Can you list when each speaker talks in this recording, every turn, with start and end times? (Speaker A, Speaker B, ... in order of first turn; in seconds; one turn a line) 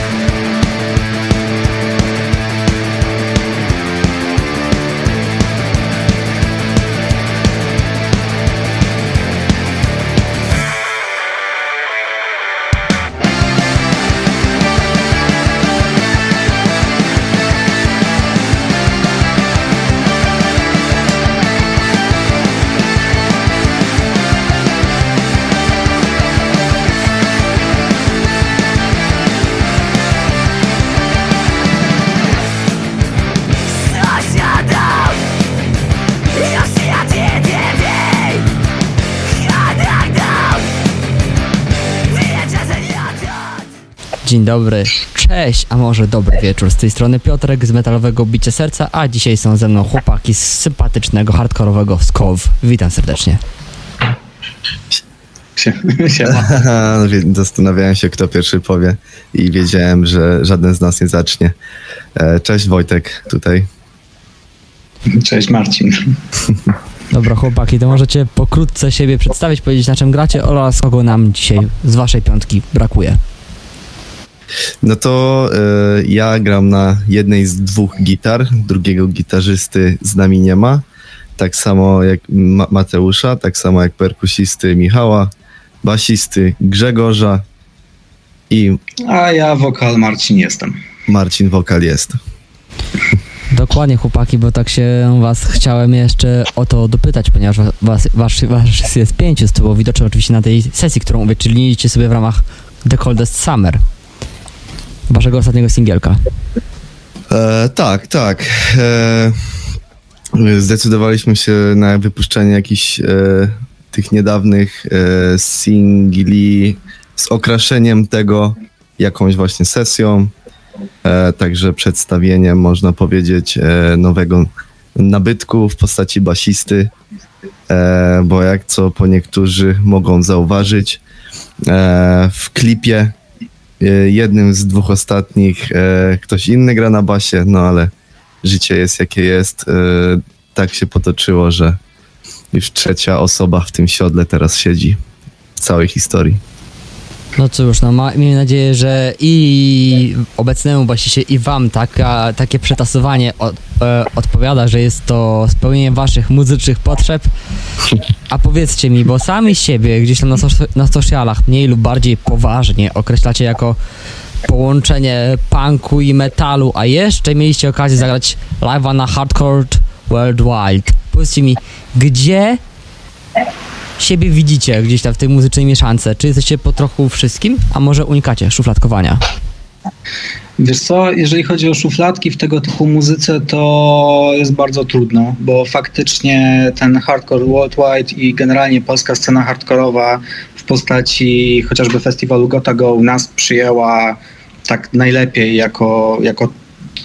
Speaker A: 36.7-38.0
Speaker A: 44.2-53.4
Speaker B: 55.6-56.5
Speaker C: 56.3-61.5
Speaker C: 62.1-63.7
Speaker B: 65.1-66.1
Speaker A: 67.1-73.2
Speaker C: 74.8-80.8
Speaker C: 81.4-85.3
Speaker C: 85.8-87.4
Speaker C: 88.5-88.8
Speaker B: 89.0-90.8
Speaker C: 91.1-92.2
Speaker A: 93.5-103.8
Speaker A: 105.1-106.2
Speaker C: 107.3-109.5
Speaker C: 110.3-120.3
Speaker C: 121.0-126.9
Speaker C: 127.7-131.0
Speaker C: 131.7-133.1
Speaker C: 133.8-137.9
Speaker C: 138.4-141.8
Speaker C: 142.5-145.0
Speaker C: 145.6-146.4
Speaker A: 147.4-157.3
Speaker A: 158.3-163.8
Speaker A: 164.4-172.6
Speaker A: 174.0-179.2
Speaker B: 180.6-196.5